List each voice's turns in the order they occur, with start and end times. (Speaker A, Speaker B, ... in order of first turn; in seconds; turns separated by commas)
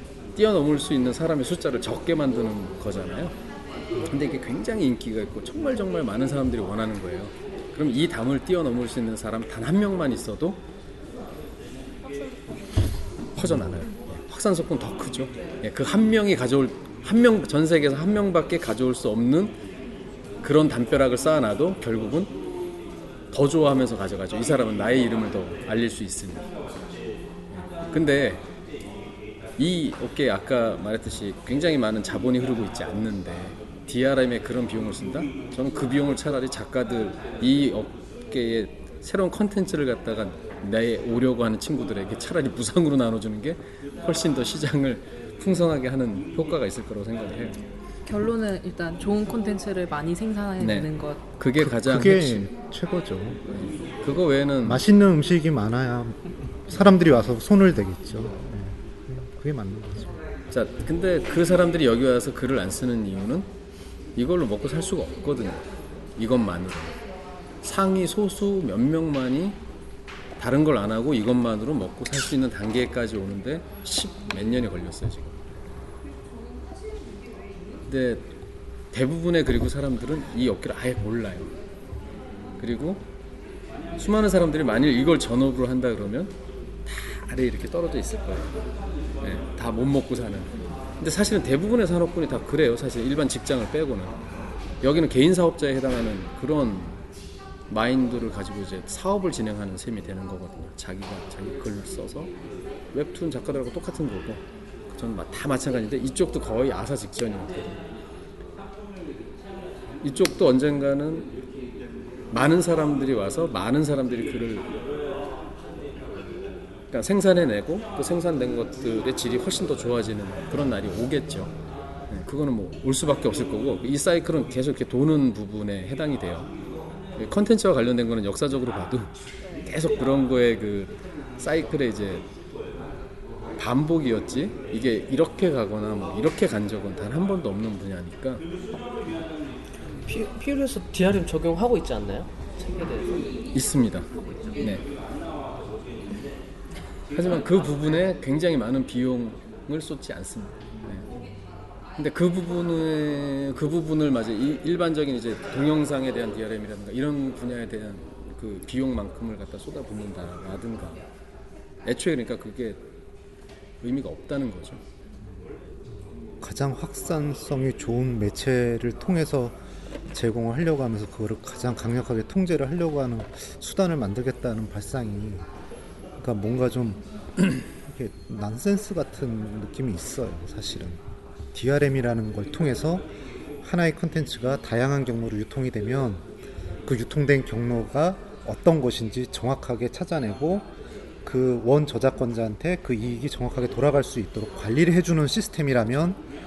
Speaker A: 0.3-3.4, Speaker A: 4.0-10.6, Speaker A: 13.4-19.6, Speaker A: 20.4-22.3, Speaker A: 23.3-26.5, Speaker A: 27.5-28.4, Speaker A: 29.6-47.6, Speaker B: 48.0-51.3, Speaker A: 50.6-52.5, Speaker C: 51.6-53.4, Speaker A: 53.5-54.9, Speaker C: 54.7-60.2, Speaker A: 56.7-57.1, Speaker A: 60.5-63.5, Speaker A: 64.2-65.7, Speaker A: 66.2-67.0, Speaker A: 67.6-69.6, Speaker A: 70.4-75.4, Speaker A: 77.9-78.3, Speaker A: 78.9-81.5, Speaker A: 82.6-83.0, Speaker A: 84.0-86.3, Speaker A: 86.8-88.5, Speaker A: 89.2-94.2, Speaker A: 94.8-97.0, Speaker A: 97.7-102.3, Speaker A: 102.9-107.8, Speaker A: 110.0-111.3, Speaker A: 112.3-114.8, Speaker A: 116.9-121.5, Speaker A: 122.1-126.5, Speaker A: 127.2-129.1, Speaker A: 129.6-132.2, Speaker A: 133.6-138.4, Speaker D: 140.1-143.3, Speaker A: 143.5-144.8, Speaker A: 147.1-151.1, Speaker A: 152.0-161.0, Speaker A: 161.8-162.8, Speaker A: 163.8-164.8, Speaker C: 166.4-169.6, Speaker C: 170.1-175.5, Speaker C: 176.2-177.0, Speaker C: 177.8-181.0, Speaker C: 181.5-183.1, Speaker C: 183.6-186.3, Speaker C: 186.8-190.7, Speaker C: 191.2-196.2